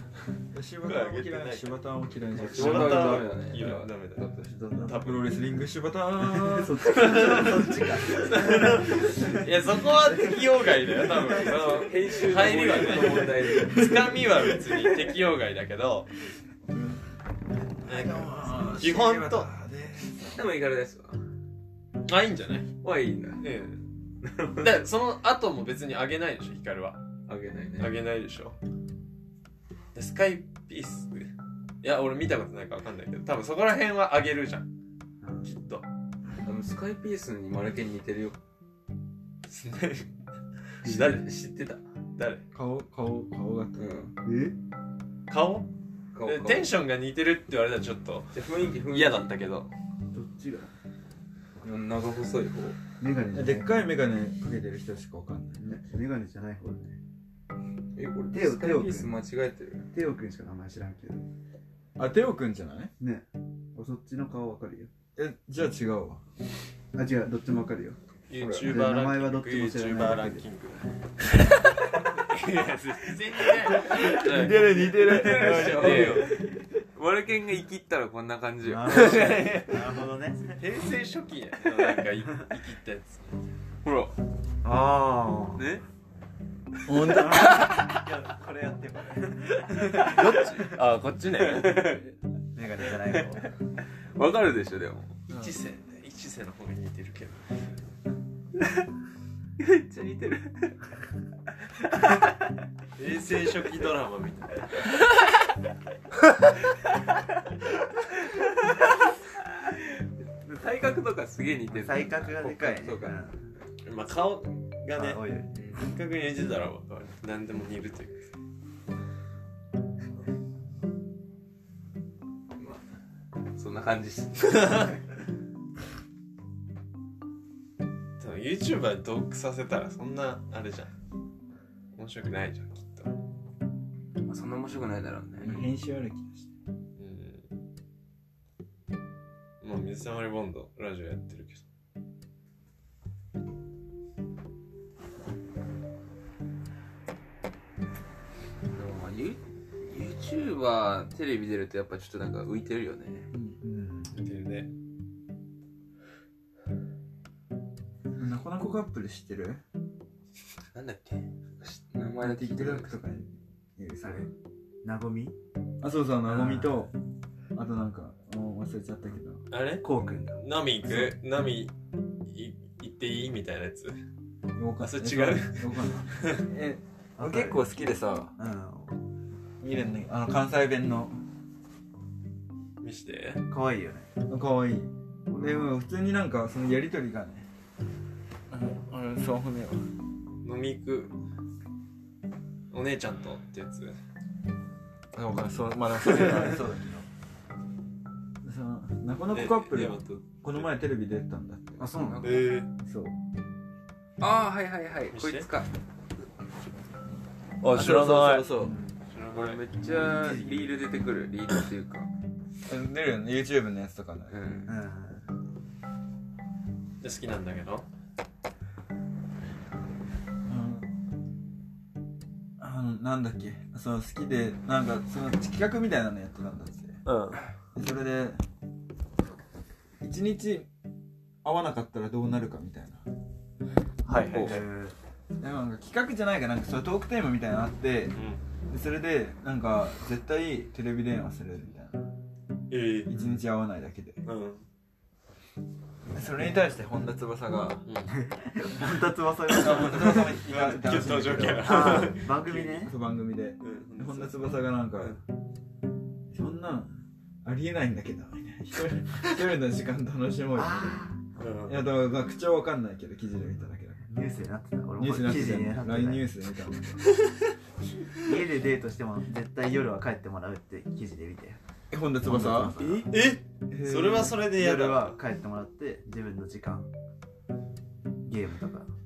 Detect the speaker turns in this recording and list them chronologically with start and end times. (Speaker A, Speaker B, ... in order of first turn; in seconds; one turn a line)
Speaker A: 0.5-3.3
Speaker B: 0.8-5.3
Speaker C: 2.3-4.5
Speaker D: 4.4-5.0
Speaker A: 4.7-7.6
Speaker D: 6.2-9.5
Speaker B: 6.9-16.1
Speaker D: 10.1-11.5
Speaker C: 11.3-14.0
Speaker D: 12.7-13.3
Speaker A: 13.5-14.3
Speaker A: 16.6-17.0
Speaker A: 17.8-20.4
Speaker B: 17.8-19.5
Speaker C: 20.3-21.2
Speaker B: 22.1-22.7
Speaker C: 22.8-23.4
Speaker B: 23.4-23.8
Speaker C: 24.2-24.7
Speaker B: 24.6-27.0
Speaker C: 27.3-27.9
Speaker B: 27.8-28.6
Speaker B: 29.9-34.6
Speaker D: 35.2-35.5
Speaker B: 35.4-35.8
Speaker C: 36.4-38.4
Speaker B: 39.5-40.1
Speaker B: 40.8-41.2
Speaker D: 40.8-41.2
Speaker C: 40.9-41.8
Speaker B: 42.2-42.4
Speaker A: 42.5-43.9
Speaker C: 43.7-44.1
Speaker D: 44.2-44.5
Speaker B: 45.3-45.7
Speaker C: 46.1-46.7
Speaker B: 46.2-48.3
Speaker C: 48.3-49.3
Speaker B: 48.9-49.7
Speaker D: 50.1-50.7
Speaker C: 51.6-52.8
Speaker D: 53.0-53.7
Speaker A: 53.3-55.6
Speaker D: 55.6-57.0
Speaker C: 57.9-59.9
Speaker D: 58.3-59.1
Speaker D: 59.9-61.2
Speaker A: 62.0-62.9
Speaker D: 63.0-64.9
Speaker A: 65.2-66.2
Speaker D: 66.9-68.0
Speaker B: 68.3-70.9
Speaker C: 68.3-68.7
Speaker D: 68.6-70.4
Speaker B: 72.1-74.6
Speaker C: 73.8-79.3
Speaker A: 73.9-76.3
Speaker B: 75.2-76.3
Speaker D: 78.6-80.6
Speaker B: 78.9-80.0
Speaker B: 80.6-83.4
Speaker C: 83.8-84.1
Speaker D: 84.6-85.6
Speaker C: 85.5-85.8
Speaker A: 86.8-87.6
Speaker C: 87.0-88.0
Speaker D: 87.0-90.7
Speaker C: 89.6-90.6
Speaker B: 90.0-92.0
Speaker C: 91.4-92.1
Speaker D: 92.5-93.5
Speaker C: 93.0-95.2
Speaker B: 95.3-97.7
Speaker A: 95.3-95.6
Speaker C: 99.6-100.8
Speaker C: 101.8-102.4
Speaker B: 103.0-104.8
Speaker C: 104.9-105.3
Speaker C: 106.6-107.3
Speaker C: 108.1-113.2
Speaker D: 111.7-113.4
Speaker B: 113.8-115.2
Speaker D: 114.9-115.5
Speaker C: 115.5-115.8
Speaker B: 115.7-118.3
Speaker C: 122.5-122.8
Speaker C: 123.5-125.0
Speaker B: 128.2-130.9
Speaker B: 131.9-133.1
Speaker C: 134.2-135.7
Speaker A: 135.4-136.5
Speaker B: 137.0-137.4
Speaker B: 139.6-141.6
Speaker C: 148.7-153.3
Speaker A: 153.3-153.6
Speaker D: 153.6-154.1
Speaker B: 154.1-154.7
Speaker A: 158.2-159.6
Speaker C: 160.7-163.0
Speaker A: 162.2-164.3
Speaker D: 164.0-164.3
Speaker D: 164.8-165.3
Speaker A: 165.8-166.9
Speaker D: 166.2-166.9
Speaker A: 167.5-169.4
Speaker B: 169.5-171.7
Speaker D: 169.8-170.4
Speaker A: 170.9-171.1
Speaker B: 172.3-174.0
Speaker A: 174.6-178.3
Speaker B: 174.8-176.4
Speaker D: 177.2-177.6
Speaker D: 178.4-179.0
Speaker A: 179.6-181.2
Speaker B: 182.8-183.4
Speaker D: 183.5-184.1
Speaker A: 184.3-187.5
Speaker D: 185.3-185.7
Speaker A: 188.5-189.9
Speaker B: 190.4-191.1
Speaker B: 192.7-194.0
Speaker A: 195.1-196.8
Speaker B: 196.0-196.5
Speaker D: 196.1-197.0
Speaker A: 198.4-201.9
Speaker B: 199.3-200.7
Speaker D: 201.8-202.5
Speaker C: 201.9-202.6
Speaker B: 202.2-202.7
Speaker A: 202.8-203.1
Speaker C: 204.2-205.7
Speaker B: 205.1-205.5
Speaker B: 207.6-208.5
Speaker A: 207.7-208.8
Speaker D: 208.6-209.0
Speaker B: 209.1-209.6
Speaker C: 209.3-212.1
Speaker D: 209.8-210.7
Speaker A: 212.7-214.3
Speaker C: 214.3-214.7
Speaker D: 214.7-215.3
Speaker B: 217.0-217.8
Speaker A: 220.4-220.9
Speaker A: 222.6-227.0
Speaker B: 227.0-227.4
Speaker A: 227.7-228.4
Speaker A: 230.0-230.7
Speaker A: 231.4-233.0
Speaker B: 234.1-234.7
Speaker C: 234.3-234.6
Speaker D: 234.3-234.9
Speaker A: 235.4-238.2
Speaker B: 238.1-238.4
Speaker A: 238.7-242.0
Speaker B: 242.7-243.4
Speaker A: 243.1-244.2
Speaker B: 244.2-244.7
Speaker A: 246.1-247.8
Speaker B: 247.8-248.2
Speaker D: 248.1-250.4
Speaker B: 249.5-252.9
Speaker A: 249.6-252.1
Speaker D: 251.5-252.9
Speaker A: 252.8-255.2
Speaker B: 253.6-255.2
Speaker A: 256.3-261.0
Speaker D: 260.5-261.2
Speaker B: 261.4-261.9
Speaker A: 261.6-264.1
Speaker D: 264.1-266.2
Speaker A: 265.0-267.0
Speaker D: 268.2-271.6
Speaker A: 271.9-272.8
Speaker D: 272.2-273.2
Speaker B: 272.8-275.2
Speaker A: 273.7-274.5
Speaker D: 274.4-276.9
Speaker D: 278.2-278.9